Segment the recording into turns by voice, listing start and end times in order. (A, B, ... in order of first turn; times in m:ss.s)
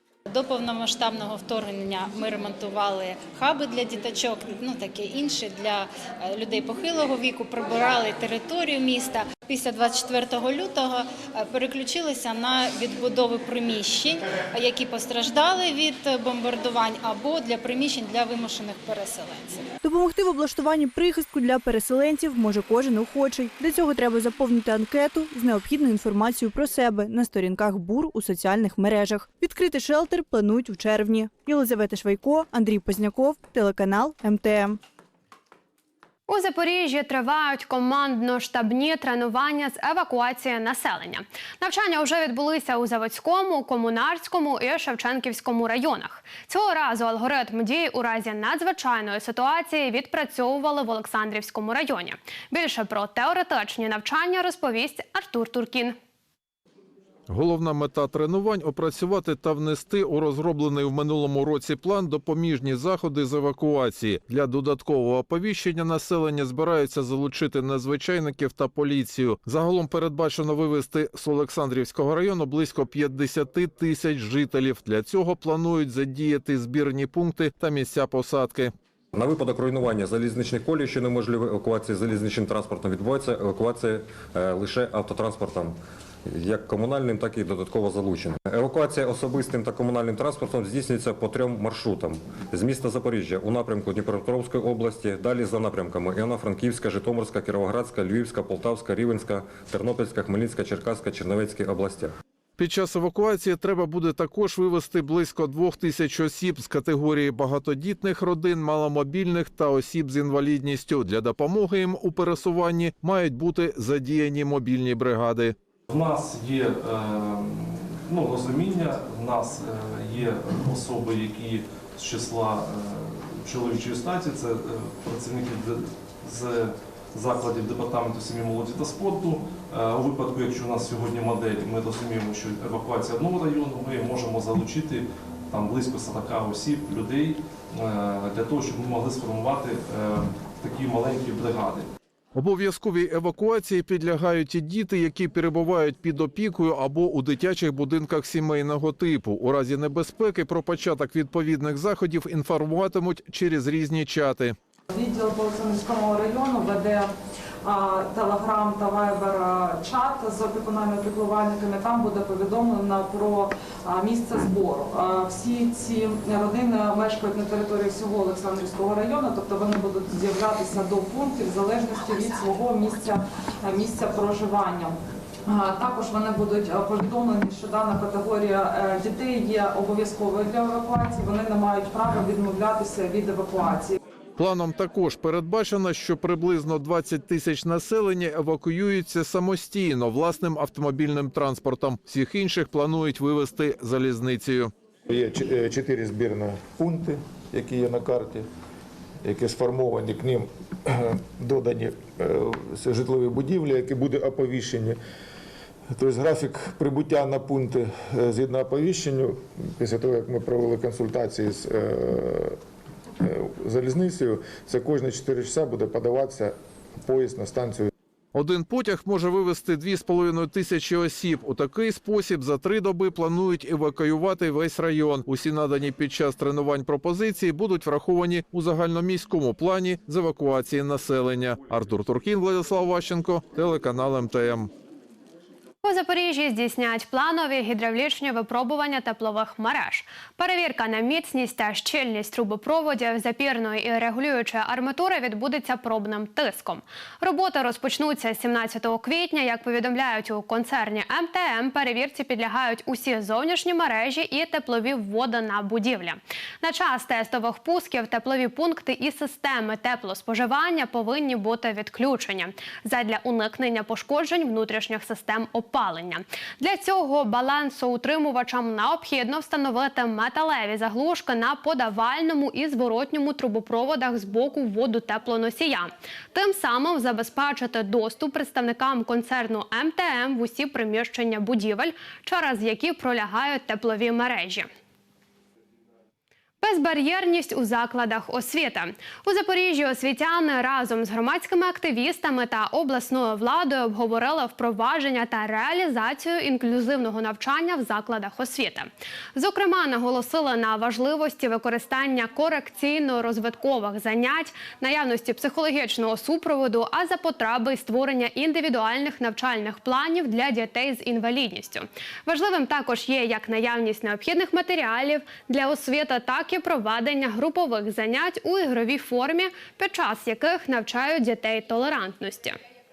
0:00.3-0:19.6 A
0:19.8-0:34.8 B
0:36.3-0:56.0 C
0:57.3-1:18.7 D
1:19.1-1:42.1 E
1:42.6-1:55.5 D
1:55.9-2:21.9 F
2:22.3-2:34.5 D
2:34.9-2:37.1 G
2:37.6-3:04.0 G
3:04.4-3:14.7 D
3:15.1-3:18.4 H
3:19.2-3:25.0 H
3:25.9-3:32.6 H
3:33.2-3:37.9 H
3:38.3-3:54.7 D
3:55.8-4:44.7 C
4:46.6-5:22.6 C